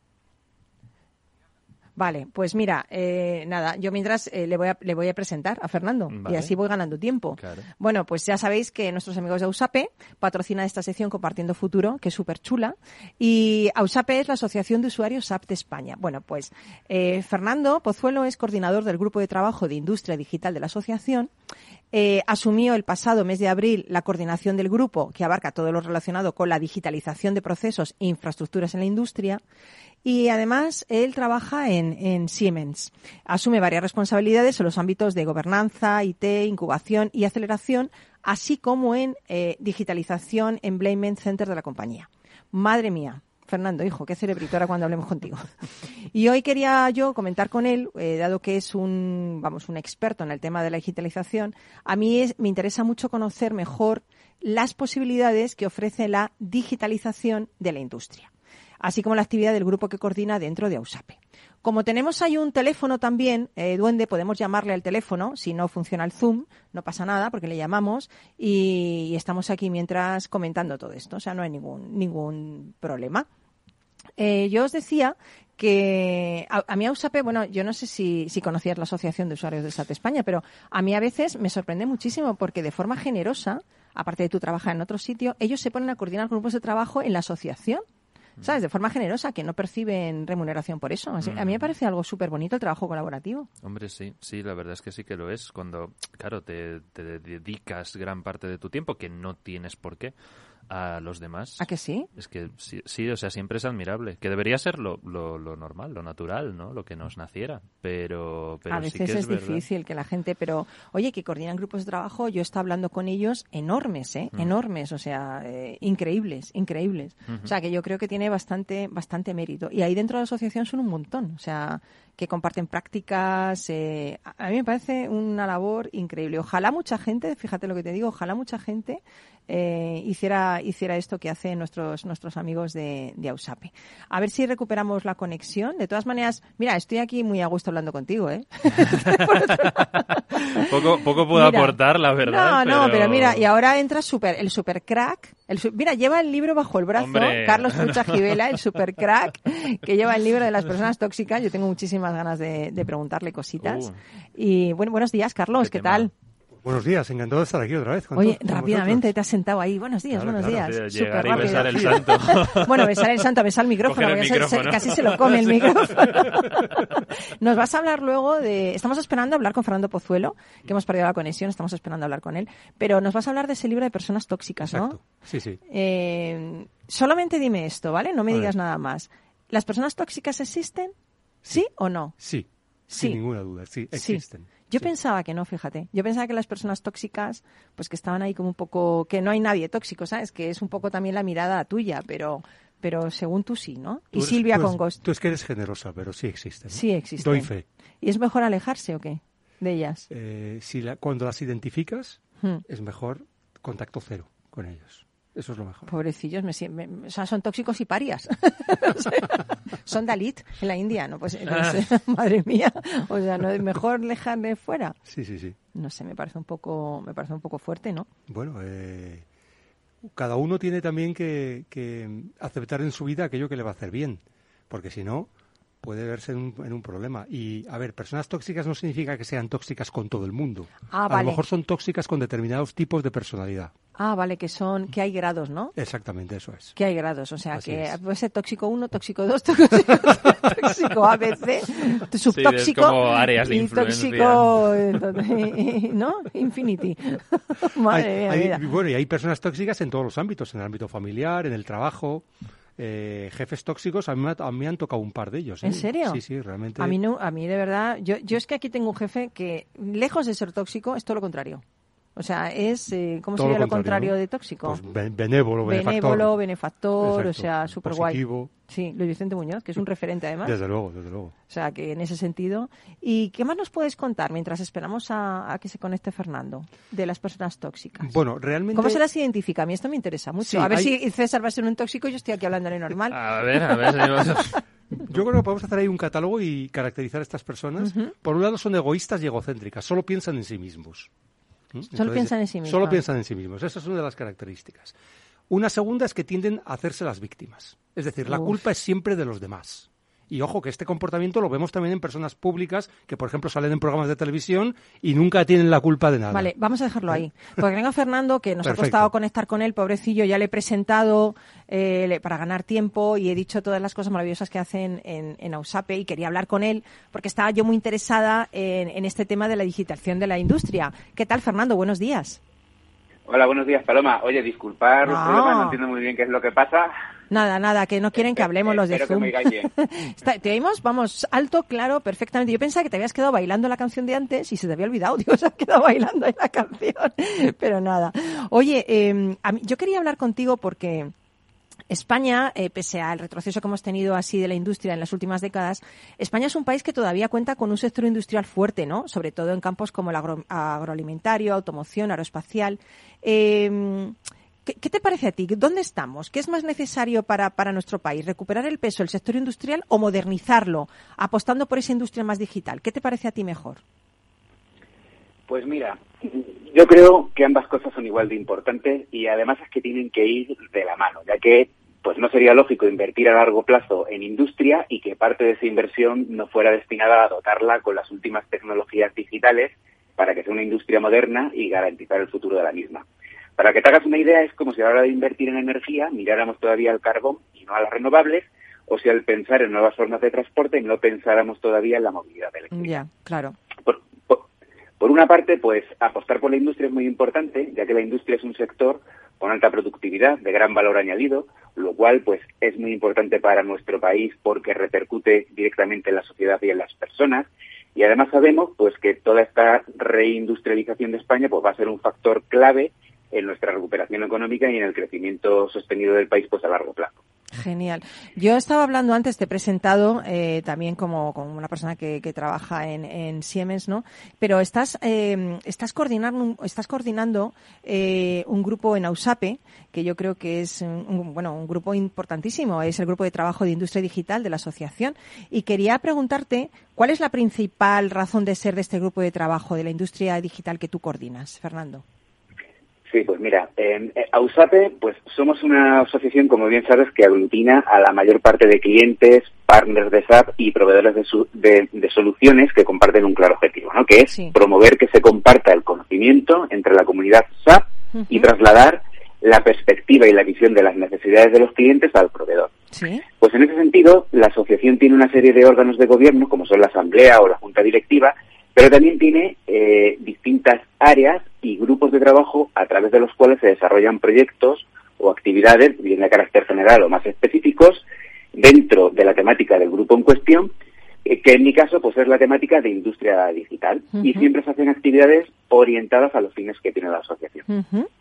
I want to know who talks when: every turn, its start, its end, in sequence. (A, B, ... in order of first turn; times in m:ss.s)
0:02.0-0:21.3 A
0:06.1-0:06.5 B
0:07.4-0:07.7 B
0:21.9-0:29.4 A
0:30.0-0:45.5 A
0:46.1-0:58.3 A
0:58.8-1:13.3 A
1:14.2-1:27.8 A
1:28.4-1:33.5 A
1:31.2-1:31.7 B
1:33.6-1:40.1 B
1:40.7-1:49.6 B
1:41.6-1:42.1 A
1:48.7-2:36.1 A
2:18.9-2:23.4 B
2:27.0-2:28.5 B
2:33.6-2:34.0 B
2:35.6-2:36.1 B
2:36.6-2:39.0 C
2:38.2-2:55.0 A
2:40.1-2:40.7 C
2:40.4-2:43.1 B
2:41.2-2:42.0 C
2:43.8-2:46.6 B
2:54.6-2:55.6 C
2:55.7-3:00.9 A
3:01.5-3:02.2 A
3:02.2-3:04.9 C
3:02.9-3:03.2 A
3:03.9-3:15.0 A
3:14.1-3:17.6 C
3:16.7-3:17.5 A
3:18.0-3:20.1 A
3:20.1-3:25.9 C
3:25.9-3:35.0 A
3:35.1-3:35.6 C
3:35.7-3:38.1 A
3:38.3-3:39.2 C
3:40.0-3:45.3 C
3:45.8-3:53.7 C
3:50.9-3:51.4 A
3:54.0-3:55.7 A
3:55.7-3:56.7 C
3:56.8-4:08.6 A
3:57.5-3:58.0 C
4:02.3-4:04.8 B
4:07.9-4:12.2 C
4:12.8-4:17.0 C
4:15.6-4:16.2 A
4:16.8-4:21.6 A
4:22.2-4:24.8 A
4:23.4-4:26.3 C
4:25.6-4:30.6 A
4:27.0-4:28.5 C
4:30.4-4:31.3 C
4:31.5-4:38.1 A
4:38.0-4:39.0 C
4:38.7-4:43.2 A
4:40.4-4:40.9 C
4:43.1-4:44.6 B
4:45.1-4:51.1 C
4:47.8-4:48.1 A
4:51.7-4:54.9 C
4:51.9-4:53.0 A
4:55.5-5:06.5 C
4:58.3-4:58.5 A
5:06.3-5:22.4 A
5:08.6-5:09.1 C
5:23.3-5:26.9 D
5:25.0-5:25.8 A
5:27.3-5:41.1 A
5:28.4-5:29.7 D
5:41.9-6:03.8 A
6:05.5-6:23.0 D
6:23.6-6:33.0 D
6:32.7-6:33.6 A
6:33.8-6:34.4 D
6:35.0-6:57.2 D
6:57.5-7:22.0 A
7:23.1-7:42.7 D
7:38.1-7:38.5 A
7:42.9-7:43.2 A
7:43.4-7:58.0 D
7:58.5-8:00.7 D
8:01.2-8:07.6 D
8:04.2-8:04.5 A
8:07.7-8:08.1 A